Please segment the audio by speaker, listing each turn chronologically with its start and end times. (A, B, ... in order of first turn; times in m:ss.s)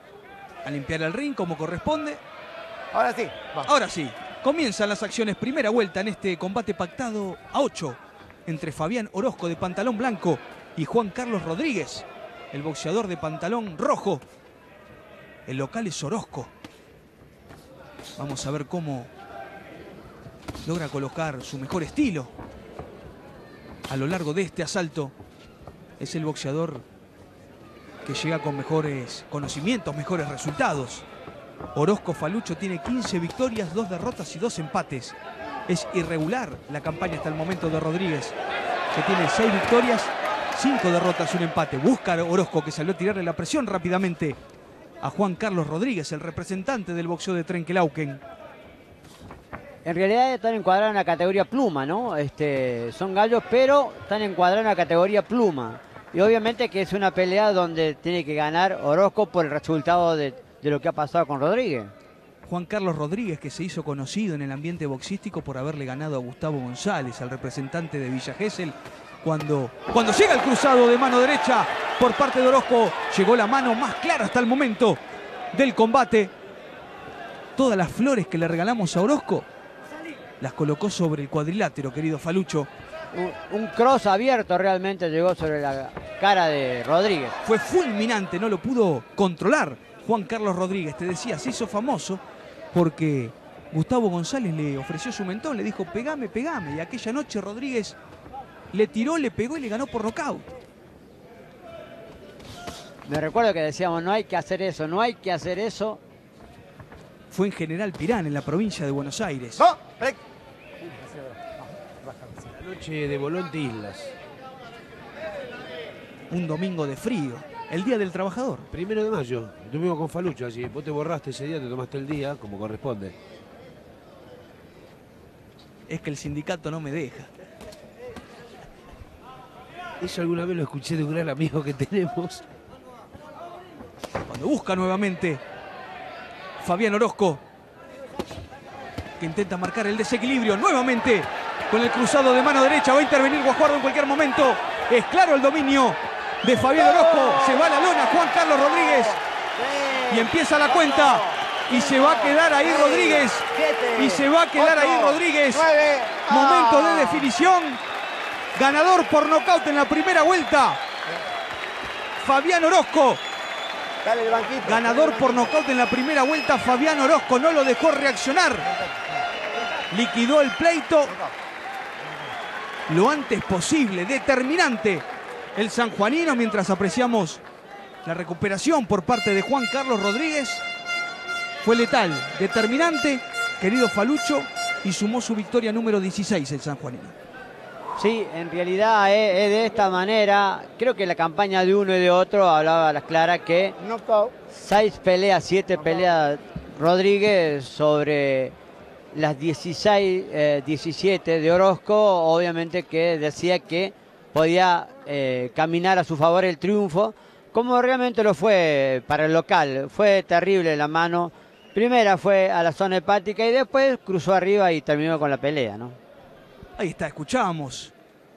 0:00.6-0:02.2 A
0:02.9-0:03.7 B
0:03.6-0:14.2 A
0:15.4-0:16.5 A
0:18.2-0:19.1 A
0:20.6-0:22.3 A
0:23.9-0:25.1 A
0:26.0-0:26.8 A
0:28.0-0:31.0 A
0:31.7-0:35.2 A
0:35.7-0:38.3 A
0:38.9-0:44.4 A
0:45.0-0:48.2 A
0:49.8-1:01.9 C
1:02.4-1:15.0 A
1:15.5-1:16.3 A
1:17.6-1:19.5 A
1:20.4-1:22.7 A
1:23.1-1:27.3 C
1:27.4-1:38.0 A
1:38.7-1:40.5 A
1:43.0-1:46.0 C
1:47.3-1:49.6 A
1:49.6-1:50.2 B
1:50.8-1:52.5 B
1:52.6-1:54.1 D
1:56.3-1:58.7 A
1:58.7-2:03.2 D
2:05.9-2:07.3 A
2:10.0-2:12.4 D
2:14.2-2:15.4 A
2:16.6-2:17.4 A
2:19.2-2:29.2 A
2:30.1-2:35.7 A
2:33.1-2:37.1 B
2:36.3-2:37.8 A
2:38.5-2:40.8 A
2:42.2-2:43.2 A
2:44.0-2:45.5 B
2:44.6-2:48.7 A
2:49.9-2:51.1 A
2:52.9-2:57.4 A
2:58.0-3:00.6 A
3:01.6-3:07.1 A
3:08.0-3:13.8 C
3:13.8-3:14.3 B
3:14.5-3:18.5 C
3:19.1-3:36.0 C
3:36.8-3:37.9 A